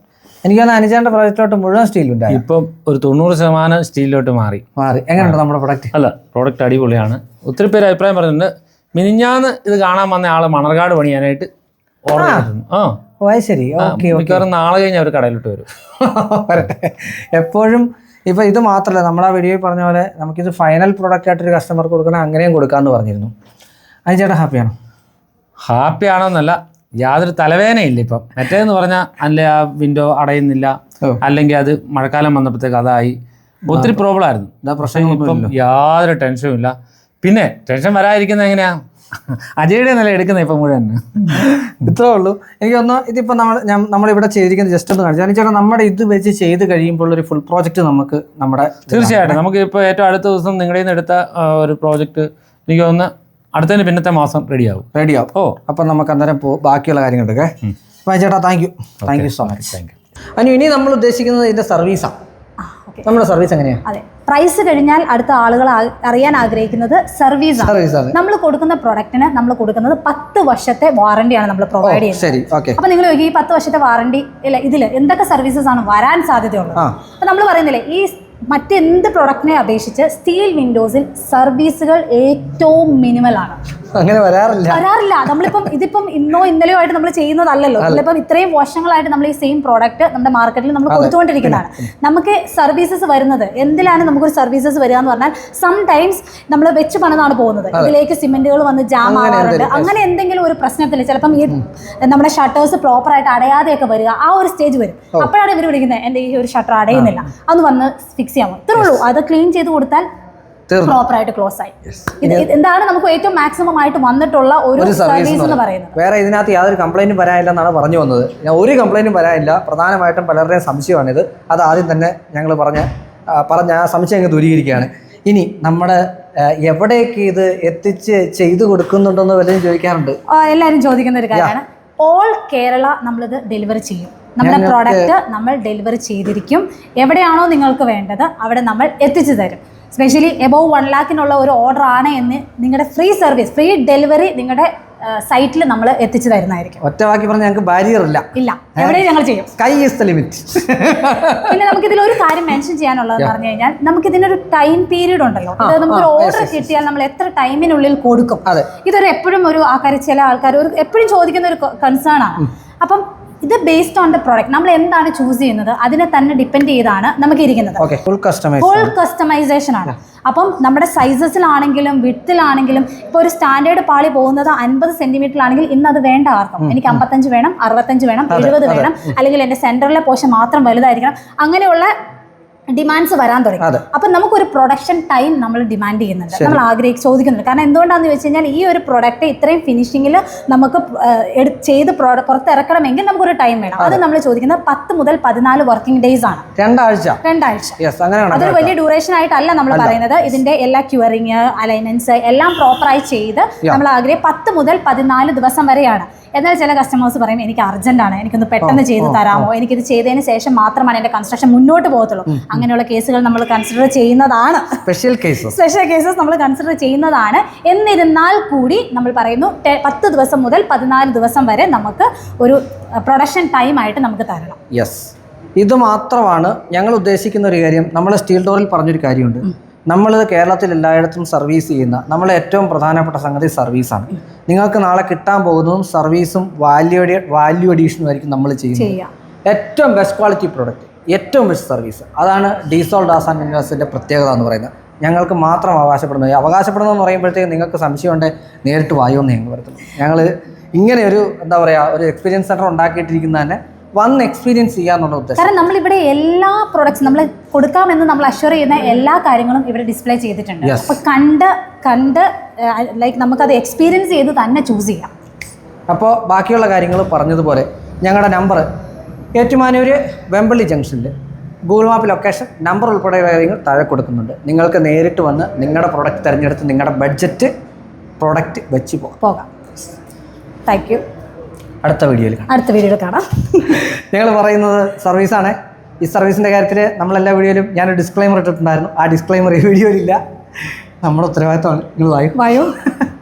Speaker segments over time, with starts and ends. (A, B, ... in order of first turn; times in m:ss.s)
0:00.4-0:02.4 A
0:02.3-0:04.6 B
0:04.8-0:05.9 A
0:05.9-0:11.5 B
0:12.1-0:13.0 B
0:12.2-0:12.5 A
0:13.2-0:14.4 A
0:13.8-0:15.6 B
0:16.0-0:23.3 A
0:24.1-0:24.7 A
0:25.6-0:38.7 B
0:33.7-0:34.0 A
0:34.6-0:35.5 A
0:39.3-0:41.4 B
0:41.3-0:49.4 A
0:48.9-0:55.6 B
0:54.9-0:59.8 A
0:59.0-0:59.9 B
1:00.4-1:02.1 A
1:02.6-1:03.1 C
1:03.0-1:03.8 A
1:03.8-1:23.6 C
1:07.6-1:08.2 A
1:11.8-1:12.8 A
1:23.9-1:24.8 A
1:24.7-1:50.1 C
1:30.9-1:31.8 A
1:39.0-1:39.9 A
1:50.7-1:51.0 A
1:50.8-1:56.0 C
1:52.0-1:52.5 A
1:54.8-2:10.2 A
2:10.3-2:26.8 C
2:14.4-2:15.1 A
2:26.8-2:31.8 A
2:28.4-2:29.5 C
2:31.4-2:47.8 C
2:35.6-2:36.8 A
2:47.8-2:48.9 A
2:48.6-3:01.9 C
2:56.6-2:57.0 A
2:58.3-2:59.1 A
3:02.7-3:16.5 C
3:03.6-3:03.8 A
3:06.3-3:06.6 A
3:16.6-3:17.2 A
3:17.2-3:34.8 C
3:17.8-3:18.8 A
3:19.7-3:20.2 A
3:28.6-3:29.5 A
3:32.3-3:32.6 A
3:34.9-3:35.6 A
3:35.4-3:44.6 C
3:44.7-4:15.5 A
3:58.8-3:59.1 C
4:15.4-4:25.1 C
4:20.6-4:21.0 A
4:25.9-4:28.7 A
4:29.4-4:31.1 A
4:31.7-4:37.5 A
4:38.2-4:39.2 A
4:39.2-4:39.5 C
4:40.7-4:41.0 C
4:41.8-4:42.5 A
4:42.5-4:43.8 C
4:43.7-4:50.2 A
4:51.0-4:52.5 A
4:52.4-4:52.7 C